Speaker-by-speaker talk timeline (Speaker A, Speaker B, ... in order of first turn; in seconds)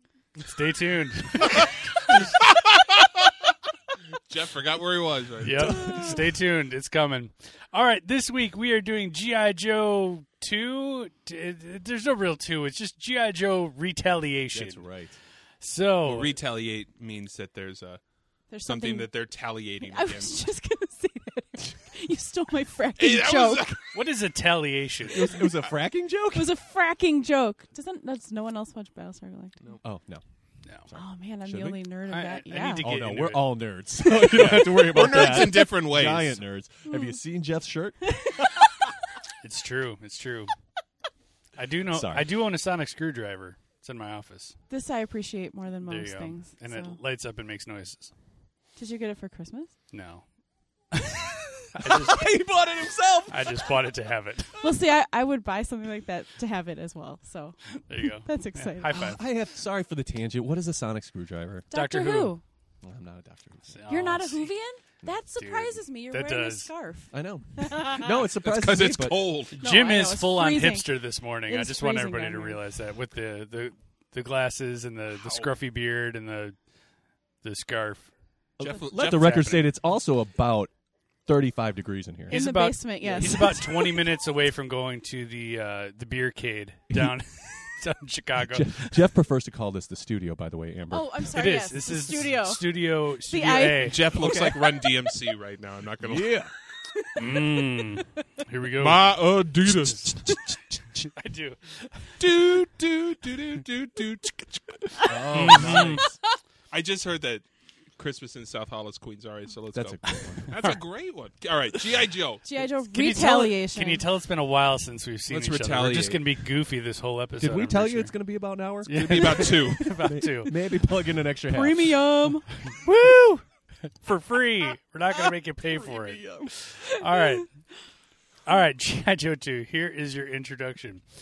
Speaker A: 0.4-2.3, 5.4-14.8, 15.6-16.3, 23.9-25.5, 32.1-33.5, 34.1-34.7, 39.4-40.5, 41.6-44.6, 45.8-48.1, 49.9-50.2, 50.9-51.2, 51.7-52.3, 53.3-54.5, 57.8-59.2, 61.7-62.4, 63.6-64.5, 65.4-66.7, 69.6-76.5, 77.4-78.1, 82.3-89.0, 91.3-94.0, 97.2-99.1, 99.7-100.4, 101.0-102.4, 105.3-106.1, 112.9-118.1, 118.8-120.6, 124.0-127.5, 128.4-131.0
Speaker B: 2.4-3.3, 4.2-6.0, 16.1-18.0, 18.6-20.4, 23.0-23.9, 34.3-36.4, 68.4-69.6, 75.2-75.5, 78.6-79.7, 93.8-96.4, 98.8-100.6, 102.2-105.9, 106.7-107.4, 108.0-112.5, 115.3-116.2, 118.9-119.9
Speaker C: 5.6-6.3, 14.5-15.2, 25.1-26.5, 29.8-30.2, 30.8-31.8, 32.8-38.7, 41.9-42.3, 51.8-53.8, 58.9-61.7, 62.8-63.8, 67.1-69.3, 78.6-80.7, 81.2-82.4, 83.0-83.4, 86.9-87.2, 88.4-91.2, 94.2-94.5, 96.0-96.5, 105.0-106.2, 109.7-110.6, 117.4-122.1, 125.6-126.5
Speaker D: 18.5-19.1, 19.8-23.8, 26.3-29.8, 30.9-32.9, 36.9-37.2, 38.2-38.8, 44.7-47.0, 48.8-49.7, 54.6-59.1, 61.7-62.4, 63.9-68.2, 69.6-72.6, 82.3-84.0, 90.9-94.9, 96.9-97.8, 112.4-114.1, 121.4-122.9, 127.1-127.4